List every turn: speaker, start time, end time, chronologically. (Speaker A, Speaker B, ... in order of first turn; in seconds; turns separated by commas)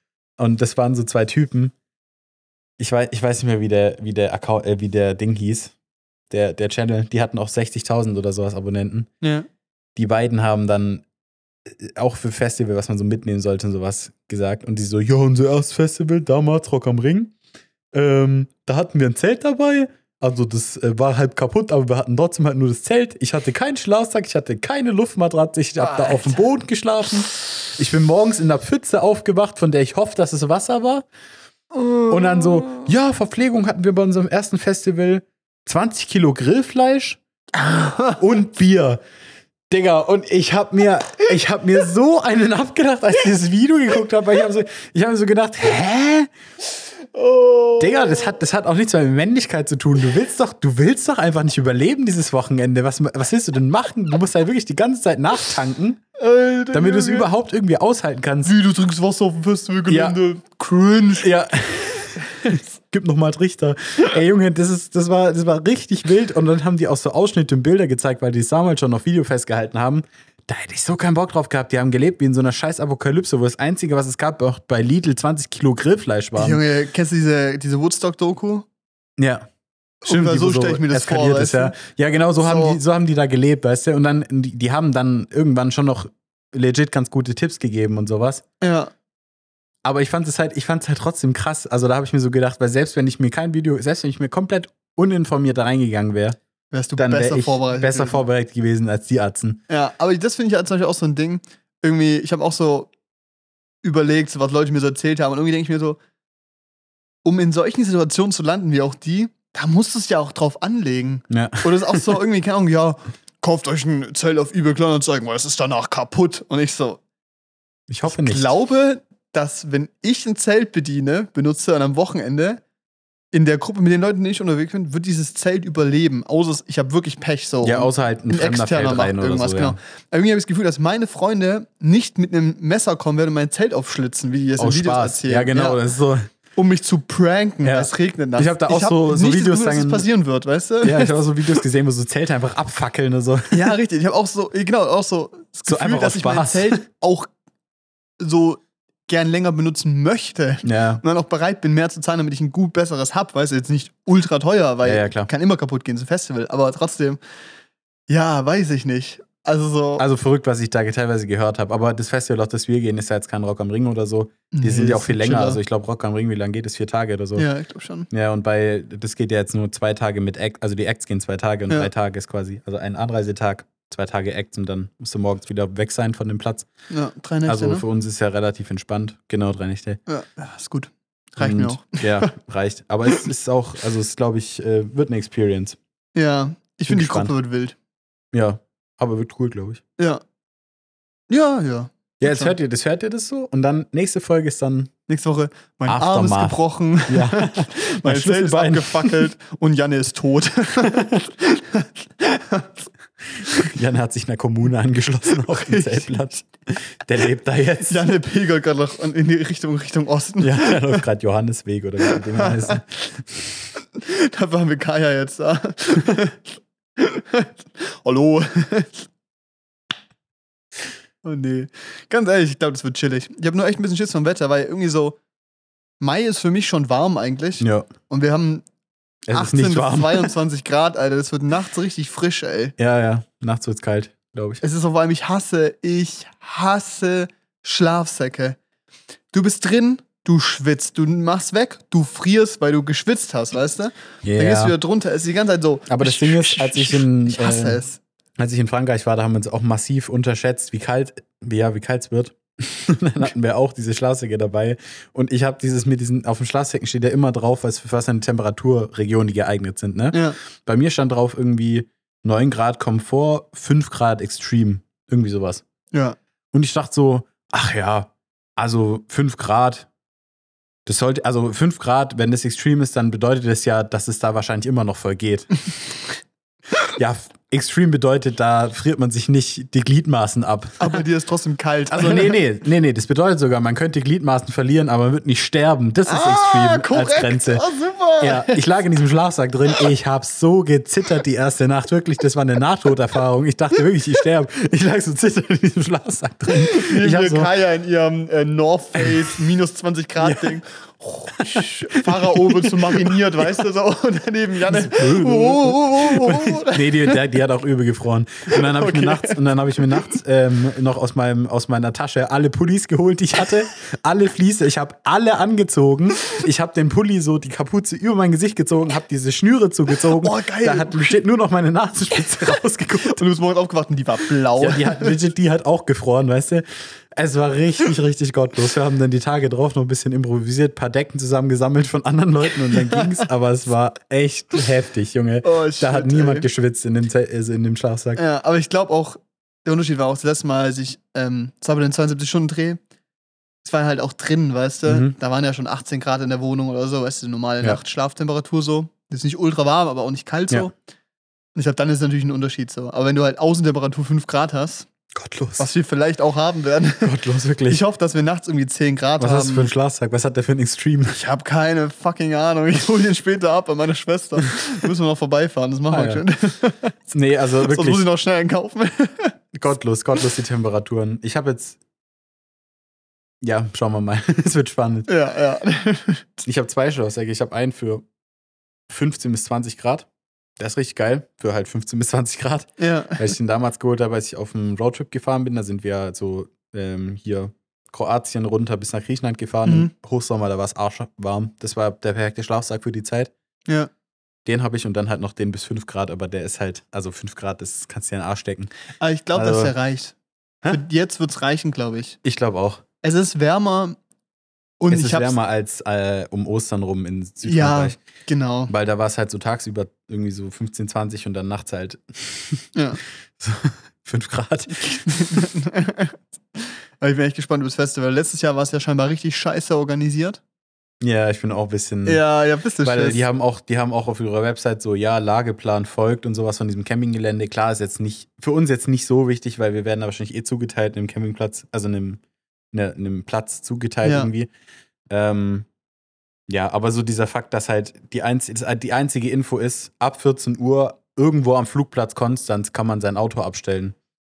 Speaker A: 0.4-1.7, Speaker A: 2.8-5.7, Speaker A: 6.3-9.1, Speaker B: 9.2-9.5, Speaker A: 10.0-11.0, Speaker A: 11.7-17.3, Speaker A: 17.9-31.1, Speaker B: 25.8-26.4, Speaker B: 31.8-32.8, Speaker A: 32.1-37.2, Speaker B: 37.6-38.2, Speaker A: 38.2-39.0, Speaker A: 39.7-46.3, Speaker B: 47.1-48.1, Speaker A: 47.8-56.0, Speaker B: 56.2-57.3, Speaker A: 56.7-58.5, Speaker B: 58.4-61.3, Speaker A: 59.9-60.2, Speaker A: 61.2-76.6, Speaker B: 76.4-78.7, Speaker A: 79.2-79.5, Speaker B: 80.0-81.8, Speaker A: 80.0-88.4, Speaker B: 82.4-82.8, Speaker B: 88.6-88.9, Speaker A: 89.8-96.4, Speaker B: 96.7-98.2, Speaker A: 97.0-99.6, Speaker B: 99.7-102.9, Speaker B: 103.8-106.0, Speaker B: 107.2-117.0, Speaker A: 111.3-112.1, Speaker A: 117.9-118.5, Speaker B: 118.1-122.6, Speaker B: 123.3-135.8, Speaker A: 127.6-129.8, Speaker A: 134.6-136.3, Speaker B: 136.6-141.3, Speaker A: 137.6-140.1, Speaker A: 140.8-143.7, Speaker B: 143.5-147.3, Speaker A: 145.7-146.8, Speaker B: 148.2-157.2, Speaker A: 150.6-151.0, Speaker A: 154.8-155.3, Speaker B: 158.1-160.1, Speaker A: 160.0-167.5, Speaker B: 164.5-165.6, Speaker B: 167.4-168.1, Speaker A: 168.1-176.7, Speaker B: 176.9-177.8, Speaker A: 177.5-180.0, Speaker B: 180.1-182.3, Speaker A: 181.4-185.8, Speaker B: 186.2-187.8, Speaker A: 186.9-187.3, Speaker A: 188.3-189.8, Speaker B: 191.3-192.5, Speaker A: 192.2-194.9, Speaker B: 195.1-202.7, Speaker A: 195.9-199.3, Speaker A: 203.5-208.1, Speaker B: 205.5-206.2, Speaker B: 207.9-211.0, Speaker A: 210.4-213.5, Speaker B: 212.1-212.8, Speaker B: 213.9-216.5, Speaker B: 217.0-219.1, Speaker B: 221.2-225.2, Speaker B: 226.0-228.6, Speaker A: 227.6-227.9, Speaker A: 229.3-230.3, Speaker B: 229.3-232.8, Speaker A: 232.8-234.6, Speaker B: 234.6-238.6, Speaker B: 239.3-248.0, Speaker A: 244.2-244.7, Speaker A: 245.9-247.8, Speaker A: 248.4-265.6, Speaker B: 260.1-260.4, Speaker B: 265.9-266.2, Speaker A: 266.5-269.9, Speaker A: 270.9-275.5, Speaker A: 277.0-281.0, Speaker B: 280.8-282.4, Speaker A: 281.9-287.6, Speaker B: 286.1-288.6, Speaker A: 288.2-297.5, Speaker B: 296.5-307.2, Speaker A: 300.2-300.6, Speaker A: 301.4-303.5, Speaker A: 304.7-323.2, Speaker B: 308.5-309.4, Speaker B: 320.2-321.1, Speaker B: 323.1-325.2, Speaker A: 324.6-338.2, Speaker B: 332.7-333.1, Speaker B: 335.4-336.5, Speaker B: 338.2-342.8, Speaker B: 343.6-350.7, Speaker A: 344.9-345.1, Speaker B: 351.6-354.9, Speaker A: 355.1-355.7, Speaker B: 355.6-357.1, Speaker A: 357.0-357.8, Speaker B: 357.7-359.7, Speaker A: 359.2-361.2, Speaker B: 361.1-367.0, Speaker A: 365.9-366.2, Speaker A: 367.1-368.0, Speaker B: 367.6-369.4, Speaker A: 369.5-371.8, Speaker A: 373.4-375.1, Speaker B: 375.1-376.3, Speaker A: 376.4-378.1, Speaker A: 378.9-380.1, Speaker A: 380.6-393.3, Speaker B: 382.8-383.3, Speaker B: 389.7-389.9, Speaker A: 394.4-398.7, Speaker B: 399.0-400.1, Speaker A: 399.3-399.7, Speaker B: 400.7-402.2, Speaker A: 402.2-402.8, Speaker B: 403.0-404.0, Speaker B: 404.8-405.4, Speaker A: 404.9-408.0, Speaker B: 407.4-408.7, Speaker A: 408.7-412.7, Speaker B: 412.8-413.0, Speaker A: 413.4-415.4, Speaker B: 414.8-420.4, Speaker A: 421.0-422.2, Speaker B: 422.1-423.2, Speaker A: 422.8-432.2, Speaker A: 432.7-434.5, Speaker B: 434.0-434.3, Speaker A: 435.1-435.7, Speaker A: 436.5-444.0